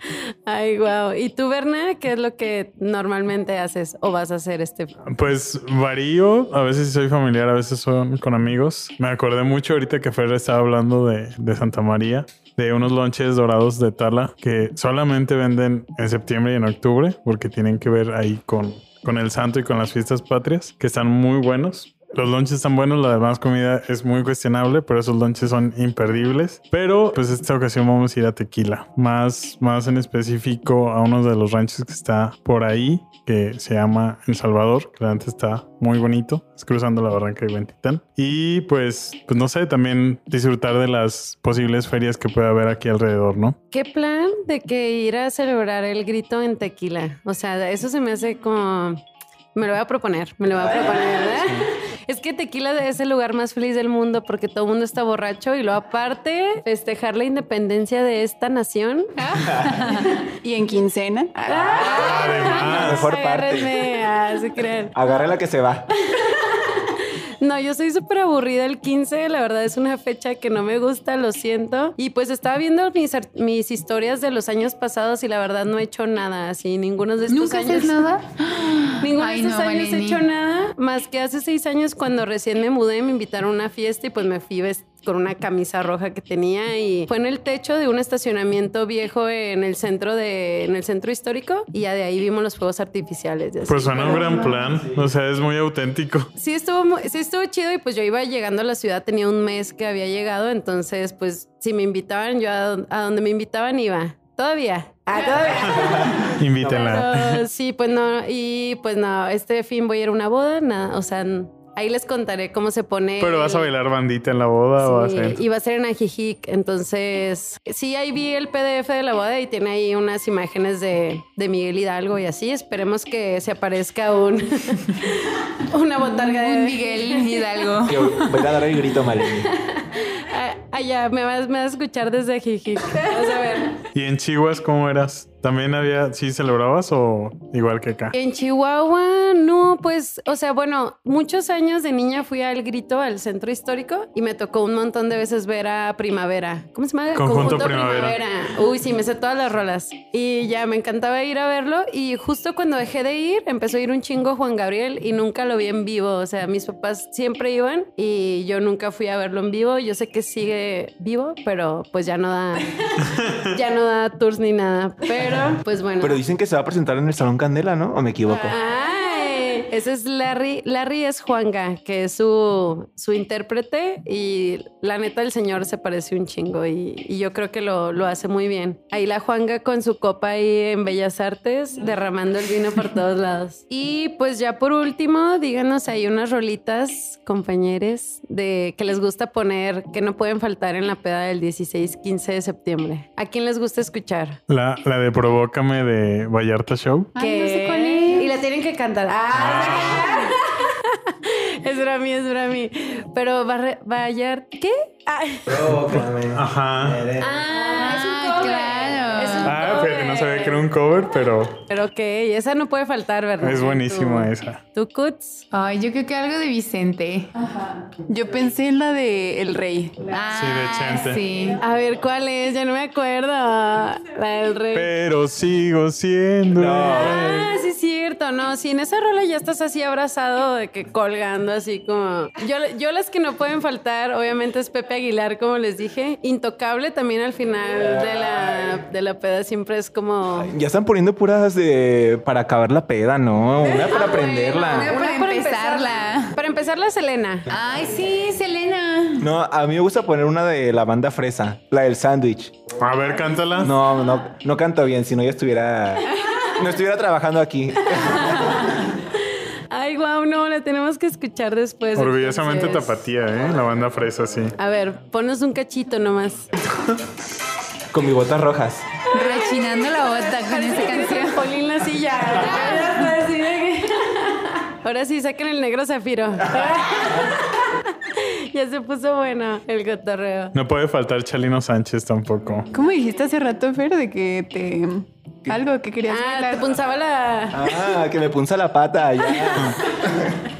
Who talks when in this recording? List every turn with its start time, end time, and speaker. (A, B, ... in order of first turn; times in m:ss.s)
0:00.4-0:05.0 A
0:05.1-0:43.6 B
0:43.7-0:59.2 A
0:50.5-0:51.3 C
0:59.2-1:00.2 D
1:00.4-1:02.4 E
1:01.5-1:05.0 A
1:01.8-1:02.0 D
1:02.0-1:03.1 B
1:02.5-1:03.8 C
1:04.9-1:05.9 C
1:06.1-1:18.0 A
1:17.3-1:20.2 D
1:19.0-1:34.4 A
1:33.6-1:36.3 B
1:34.0-1:34.8 C
1:36.4-1:53.7 A
1:45.6-1:47.4 B
1:53.2-1:55.4 B
1:54.8-2:07.6 A
2:06.0-2:08.8 D
2:07.8-2:09.5 C
2:09.2-2:13.7 A
2:13.9-2:18.1 B
2:18.1-2:46.2 A
2:27.1-2:28.2 B
2:46.0-2:48.6 C
2:48.3-2:48.8 E
2:48.4-3:14.4 A
3:14.5-3:17.1 B
3:17.1-3:18.4 D
3:17.2-3:25.6 A
3:19.3-3:20.1 B
3:19.6-3:20.3 D
3:25.5-3:27.2 C
3:25.9-3:27.1 B
3:27.2-3:30.6 A
3:27.8-3:29.5 D
3:29.4-3:31.6 B
3:31.7-3:35.4 A
3:33.4-3:34.6 B
3:35.5-3:37.3 D
3:37.9-3:40.2 E
3:40.1-3:41.6 D
3:40.3-3:41.2 B
3:41.6-3:44.9 A
3:44.7-3:47.5 B
3:46.5-3:47.4 C
3:46.9-4:00.5 A
4:00.4-4:04.9 C
4:03.8-4:04.1 A
4:03.8-4:06.4 D
4:04.7-4:07.5 A
4:07.5-4:09.3 D
4:09.2-4:12.5 C
4:12.8-4:13.7 B
4:13.6-4:18.8 C
4:18.0-4:19.2 A
4:19.7-4:23.0 A
4:21.9-4:24.5 B
4:24.6-4:26.5 A
4:27.9-4:28.9 C
4:29.1-4:31.4 D
4:29.1-4:40.5 A
4:32.3-4:33.2 D
4:40.5-4:42.7 B
4:42.7-4:46.7 E
4:46.1-4:47.7 A
4:47.5-4:50.4 C